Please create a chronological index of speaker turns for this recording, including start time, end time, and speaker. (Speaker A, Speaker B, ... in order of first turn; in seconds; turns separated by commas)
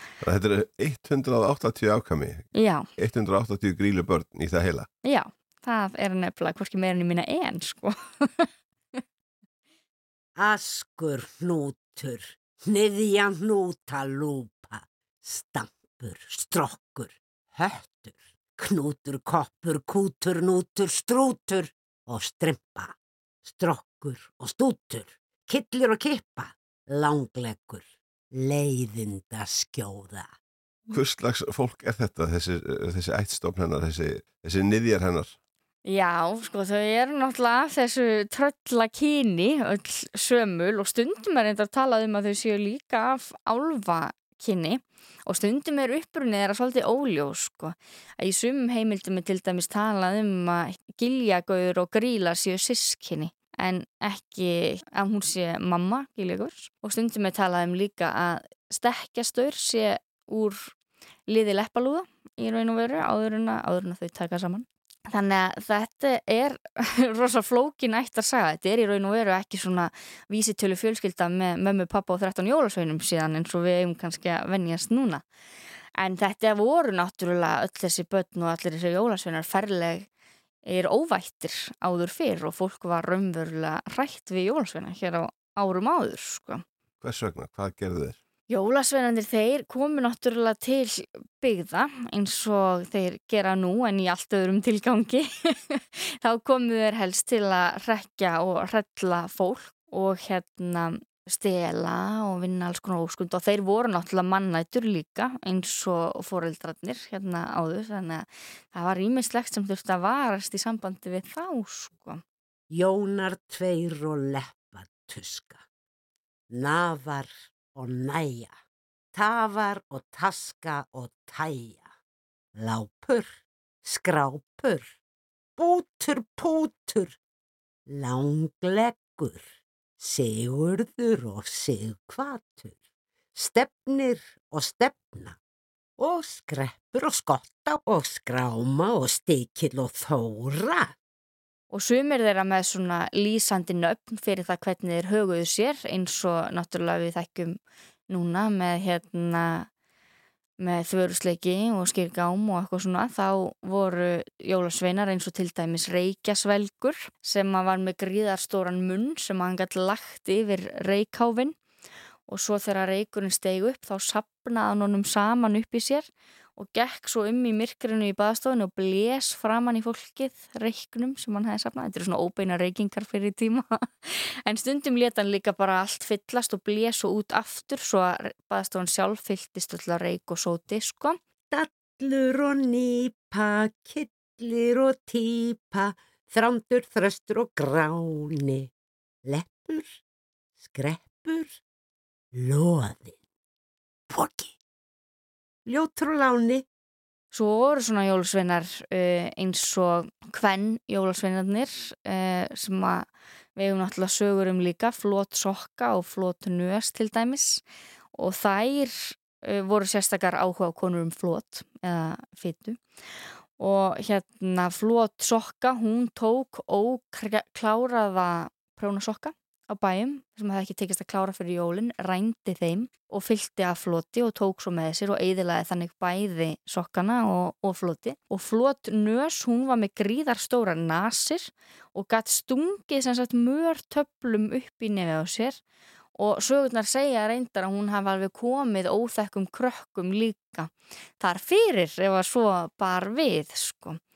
Speaker A: 0.2-4.9, Speaker B: 2.5-2.9, Speaker B: 5.0-8.5, Speaker C: 10.4-30.3, Speaker A: 30.9-35.3, Speaker B: 35.8-60.7, Speaker B: 61.3-75.2, Speaker B: 76.0-80.1, Speaker B: 80.7-86.6, Speaker A: 87.0-88.2, Speaker B: 88.5-112.2, Speaker C: 112.7-115.6, Speaker C: 116.5-118.5, Speaker C: 119.1-121.9, Speaker C: 122.6-124.9, Speaker C: 125.6-127.2, Speaker C: 127.9-129.4, Speaker C: 130.0-132.7, Speaker C: 133.3-135.4, Speaker C: 136.0-140.9, Speaker B: 141.7-147.6, Speaker B: 148.1-149.7, Speaker B: 150.6-161.6, Speaker B: 162.3-181.2, Speaker C: 181.5-188.7, Speaker C: 189.2-190.0, Speaker C: 190.6-191.6, Speaker C: 192.3-193.2, Speaker C: 194.1-194.5, Speaker C: 195.7-196.7, Speaker B: 197.3-207.6, Speaker B: 208.1-212.8, Speaker B: 213.6-235.6, Speaker B: 236.2-244.0